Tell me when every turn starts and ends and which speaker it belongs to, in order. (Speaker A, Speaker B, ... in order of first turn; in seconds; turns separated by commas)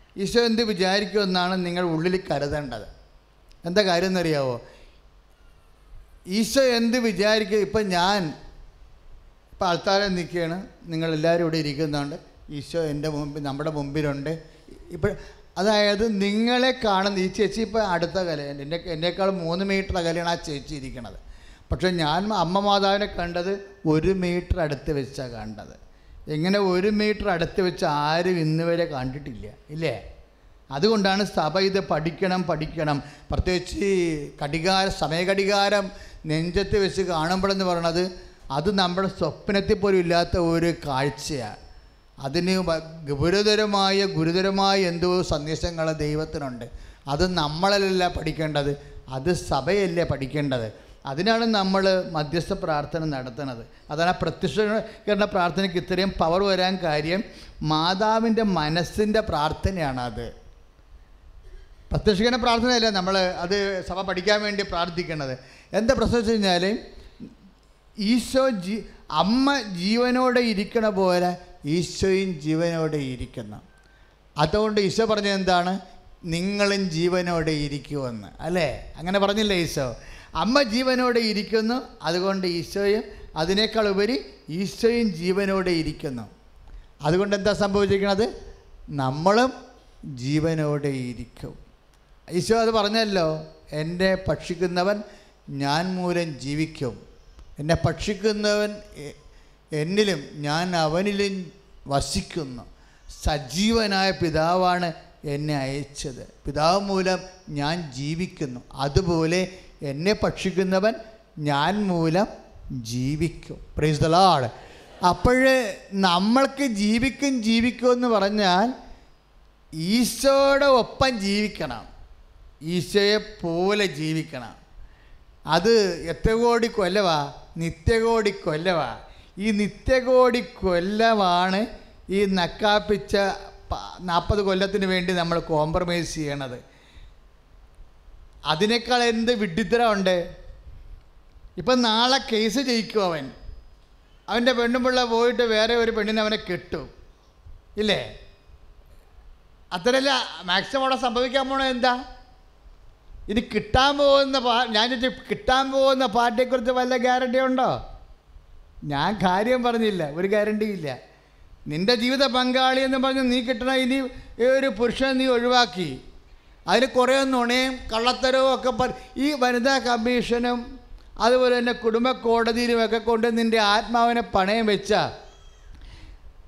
Speaker A: 0.2-2.9, Speaker A: 3.6-4.6, Speaker A: 6.3-8.3, Speaker A: 9.6-14.4, Speaker A: 14.9-21.2, Speaker A: 21.7-25.8, Speaker A: 26.3-30.0, Speaker A: 30.8-41.6, Speaker A: 42.2-60.3, Speaker A: 61.9-66.8, Speaker A: 68.1-73.6, Speaker A: 74.4-75.8, Speaker A: 76.3-86.3, Speaker A: 87.1-88.3, Speaker A: 89.0-89.5, Speaker A: 90.2-91.6, Speaker A: 92.3-95.0, Speaker A: 95.6-97.0, Speaker A: 97.6-99.2, Speaker A: 99.8-102.7, Speaker A: 103.2-112.3, Speaker A: 112.8-114.5, Speaker A: 115.1-118.7, Speaker A: 119.8-121.9, Speaker A: 122.7-124.6, Speaker A: 125.5-136.6, Speaker A: 138.5-140.2, Speaker A: 141.6-143.3, Speaker A: 144.3-146.9, Speaker A: 147.8-148.0, Speaker A: 149.7-152.0, Speaker A: 153.3-157.8, Speaker A: 158.9-161.0, Speaker A: 161.7-166.0, Speaker A: 166.7-170.6, Speaker A: 171.2-175.0